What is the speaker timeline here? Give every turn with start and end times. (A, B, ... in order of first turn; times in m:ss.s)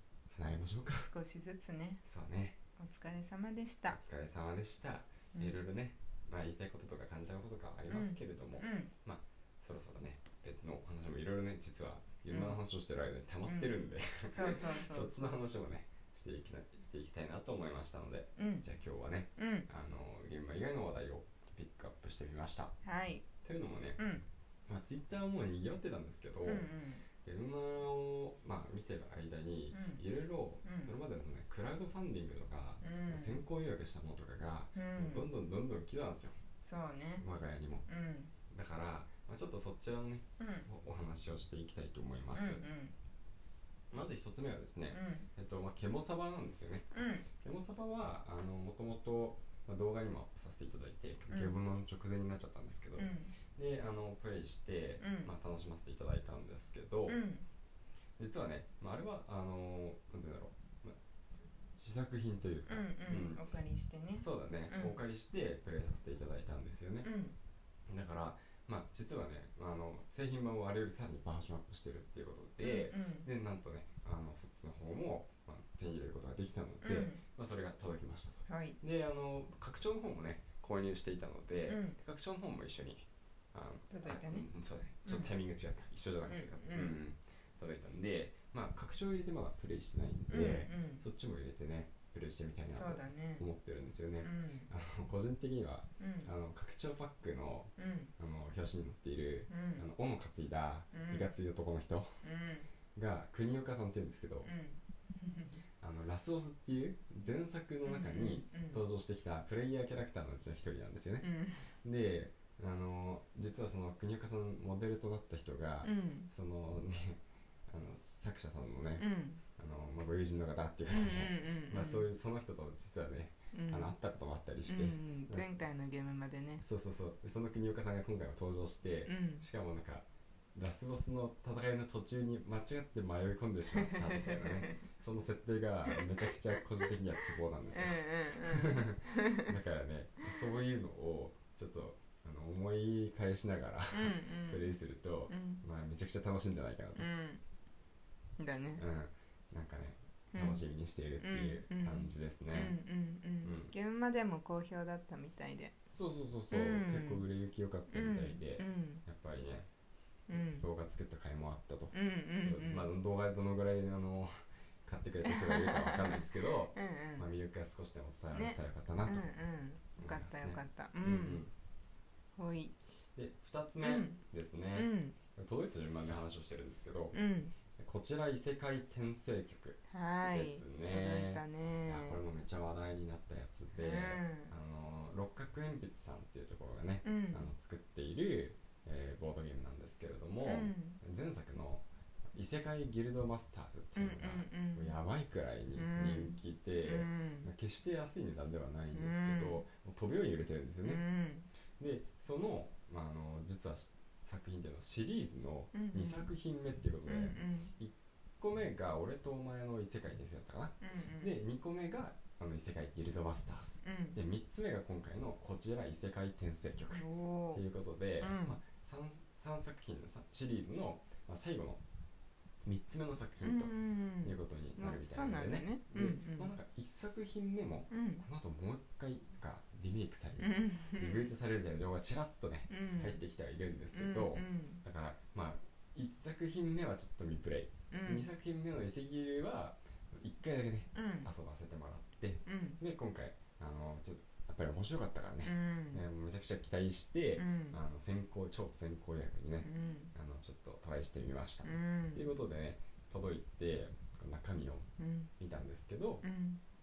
0:00.3-0:01.1 A
0:01.0-0:02.0 B
0:02.0-0:02.6 A
0:02.8-0:04.0 B
0:03.9-0:22.8 A
0:05.3-0:05.6 B
0:07.9-0:08.9 B
0:12.3-0:12.6 B
0:13.5-0:15.4 B
0:18.4-0:18.6 B
0:19.4-0:19.7 B
0:22.8-0:23.2 B
0:23.4-0:24.0 A
0:24.0-0:24.2 B
0:24.7-0:26.7 A
0:26.4-0:27.0 B
0:27.2-0:36.4 A
0:29.7-0:30.0 B
0:30.6-0:30.9 B
0:32.8-0:33.4 B
0:34.8-0:35.3 B
0:36.6-0:37.2 B
0:37.2-0:37.8 A
0:37.9-0:38.3 B
0:38.5-0:42.6 A
0:40.4-0:40.7 B
0:42.3-0:42.9 B
0:43.9-0:57.2 A
0:44.9-0:45.3 B
0:46.9-0:47.2 B
0:51.3-0:51.6 B
0:53.0-0:53.3 B
0:55.0-0:55.3 B
0:57.1-0:57.4 B
0:58.2-1:01.0 A
1:01.7-1:03.6 A
1:02.7-1:05.0 B
1:04.1-1:07.1 A
1:07.0-1:07.3 B
1:07.9-1:42.1 A
1:12.6-1:13.3 B
1:16.8-1:17.2 B
1:18.5-1:18.8 B
1:21.7-1:22.0 B
1:23.9-1:24.5 B
1:25.0-1:25.3 B
1:26.2-1:27.0 B
1:30.3-1:31.0 B
1:32.7-1:33.4 B
1:34.2-1:34.7 B
1:36.0-1:36.3 B
1:37.8-1:38.1 B
1:39.5-1:39.8 B
1:40.9-1:41.3 B
1:42.2-1:42.7 B
1:42.9-1:44.5 A
1:44.4-1:45.6 B
1:45.8-1:51.3 A
1:47.8-1:48.8 B
1:51.2-1:51.7 B
1:51.8-2:05.5 A
1:55.8-1:56.3 B
1:59.0-1:59.4 B
2:00.9-2:02.1 B
2:03.5-2:03.9 B
2:04.7-2:06.6 B
2:06.6-2:27.1 A
2:09.1-2:09.4 B
2:13.7-2:14.8 B
2:17.7-2:19.4 B
2:23.9-2:24.8 B
2:25.3-2:25.6 B
2:26.9-2:27.4 B
2:28.4-2:28.8 B
2:28.8-2:32.8 A
2:30.3-2:30.6 B
2:31.2-2:35.8 B
2:33.4-2:33.7 A
2:35.9-2:39.7 A
2:36.5-2:37.2 B
2:37.9-2:39.0 B
2:40.3-2:40.6 B
2:40.3-2:44.3 A
2:41.9-2:42.9 B
2:44.8-2:49.3 A
2:45.2-2:46.2 B
2:46.7-2:47.2 B
2:48.3-2:51.4 B
2:50.0-2:51.5 A
2:52.4-2:52.8 B
2:53.1-2:57.2 A
2:53.8-2:54.2 B
2:54.7-2:55.2 B
2:57.1-2:57.5 B
2:57.8-3:21.0 A
2:59.9-3:02.2 B
3:03.8-3:04.5 B
3:07.0-3:07.5 B
3:10.4-3:11.0 B
3:13.9-3:14.9 B
3:15.8-3:17.5 B
3:18.9-3:19.6 B
3:20.8-3:21.5 B
3:21.8-3:41.8 A
3:25.7-3:26.3 B
3:27.1-3:27.7 B
3:30.8-3:31.3 B
3:33.8-3:34.2 B
3:36.9-3:37.6 B
3:38.2-3:38.6 B
3:42.6-4:16.2 A
3:43.4-3:46.5 B
3:47.9-3:48.2 B
3:50.4-3:51.3 B
3:52.7-3:53.2 B
3:53.9-3:54.8 B
3:57.9-3:58.3 B
4:00.9-4:01.3 B
4:02.4-4:02.8 B
4:05.4-4:06.0 B
4:07.4-4:07.8 B
4:09.6-4:10.1 B
4:11.6-4:12.2 B
4:15.0-4:15.3 B
4:16.2-4:16.6 B